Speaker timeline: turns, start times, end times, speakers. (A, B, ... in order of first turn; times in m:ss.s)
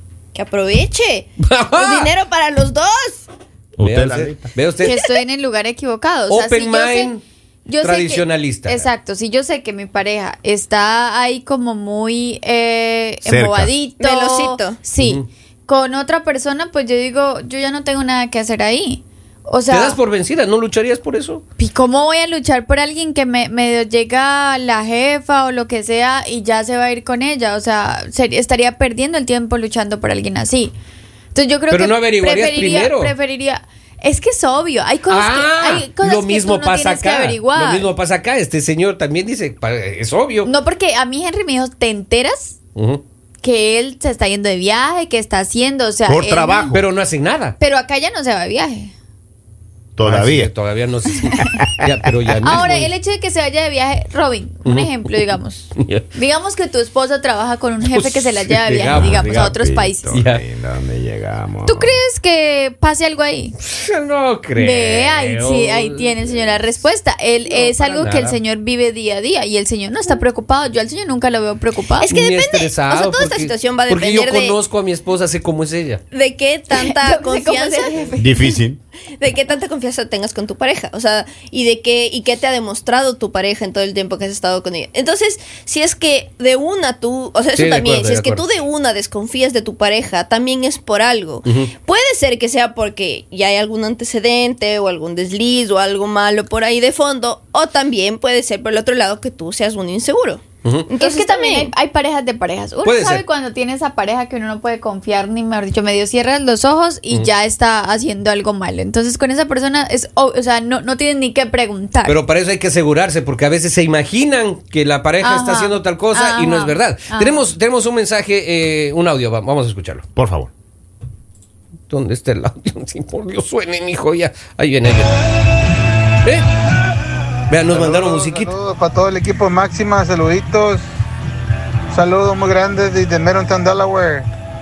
0:00.3-0:03.3 A
0:01.4-0:02.1 B
0:03.8-0:04.5 C
0:03.8-0:05.0 B
0:04.8-0:07.1 D
0:06.3-0:07.2 B
0:07.6-0:20.0 D
0:07.8-0:08.9 B
0:13.2-0:13.7 C
0:14.0-0:14.8 A
0:15.0-0:15.3 B
0:19.7-0:21.4 B
0:21.6-0:30.7 D
0:31.3-0:37.9 D
0:31.7-0:33.1 B
0:35.1-0:40.5 B
0:40.4-0:42.6 D
0:42.8-0:43.0 B
0:43.4-0:46.8 D
0:46.1-0:46.8 C
0:46.7-0:47.6 B
0:47.6-0:48.9 D
0:50.0-0:50.5 C
0:50.0-0:52.9 B
0:51.4-0:51.9 C
0:52.4-1:00.2 D
0:54.6-0:55.1 B
0:55.8-0:56.0 B
0:57.9-0:59.6 B
0:58.9-1:02.0 C
1:00.1-1:00.4 B
1:01.6-1:03.6 D
1:03.6-1:06.6 B
1:04.6-1:12.1 D
1:07.5-1:08.4 B
1:12.0-1:14.6 A
1:12.1-1:16.0 B
1:16.1-1:18.1 A
1:16.7-1:18.5 D
1:18.2-1:18.8 C
1:19.2-1:41.7 A
1:27.5-1:28.4 B
1:31.4-1:31.7 B
1:40.6-1:40.9 B
1:41.0-1:52.2 D
1:42.8-1:43.2 B
1:52.0-2:00.0 B
1:55.2-1:57.5 D
2:00.1-2:00.5 C
2:01.9-2:05.2 B
2:06.2-2:06.5 B
2:07.5-2:08.5 B
2:08.0-2:10.9 E
2:11.9-2:14.3 E